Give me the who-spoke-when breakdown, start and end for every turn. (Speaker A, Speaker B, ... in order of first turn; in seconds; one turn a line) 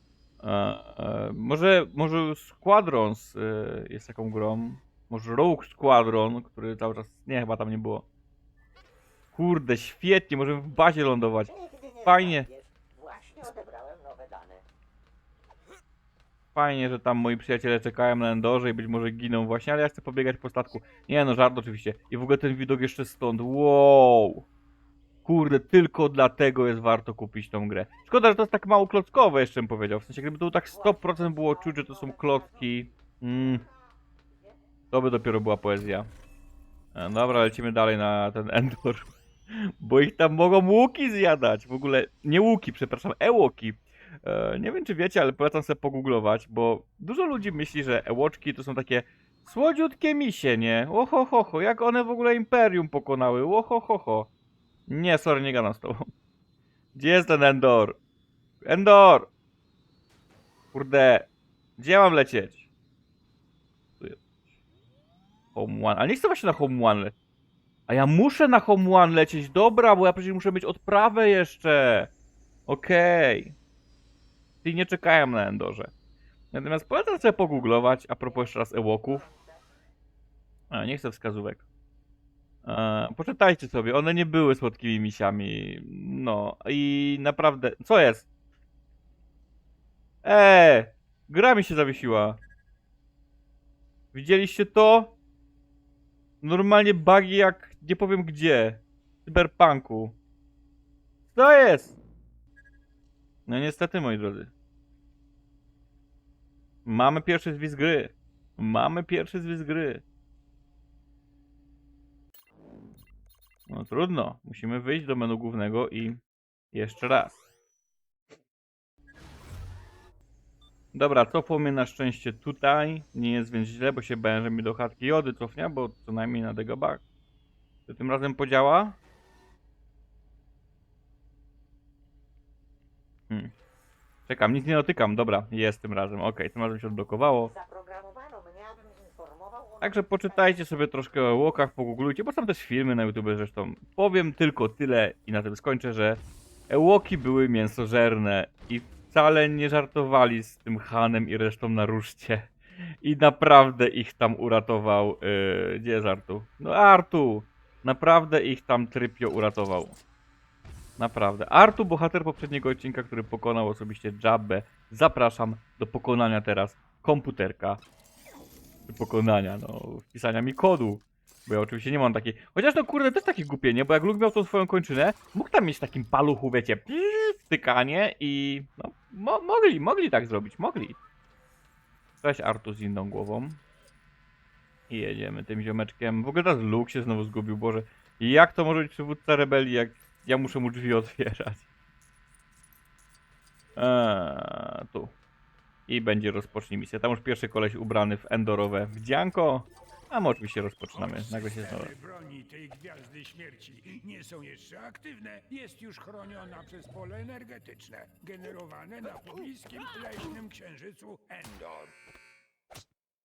Speaker A: 0.4-8.0
Speaker A: 9.3-11.5
Speaker B: 11.5-14.6
Speaker A: 12.0-12.5
Speaker A: 16.5-24.4
Speaker A: 25.2-33.6
Speaker B: 30.6-33.7
Speaker A: 34.9-36.1
Speaker A: 36.9-54.3
Speaker A: 54.9-56.1
Speaker A: 56.9-58.0
Speaker A: 58.6-59.3
Speaker A: 60.7-62.6
Speaker A: 65.5-67.1
Speaker A: 67.9-72.1
Speaker A: 72.7-73.5
Speaker A: 74.6-75.9
Speaker A: 76.5-79.2
Speaker B: 78.2-79.5
Speaker A: 80.7-81.6
Speaker A: 82.6-88.2
Speaker A: 90.2-92.4
Speaker A: 94.1-95.1
Speaker A: 96.4-100.2
Speaker A: 101.3-101.9
Speaker A: 103.5-104.5
Speaker A: 106.8-110.0
Speaker A: 113.7-116.2
Speaker A: 116.7-117.4
Speaker A: 120.9-127.0
Speaker A: 127.9-129.0
Speaker A: 134.3-137.5
Speaker B: 137.4-140.7
Speaker A: 139.8-152.5
Speaker A: 153.0-160.0
Speaker A: 161.0-167.8
Speaker A: 168.9-180.9
Speaker A: 182.2-183.6
Speaker A: 184.9-191.6
Speaker A: 193.8-195.1
Speaker A: 195.9-201.9
Speaker C: 200.9-211.9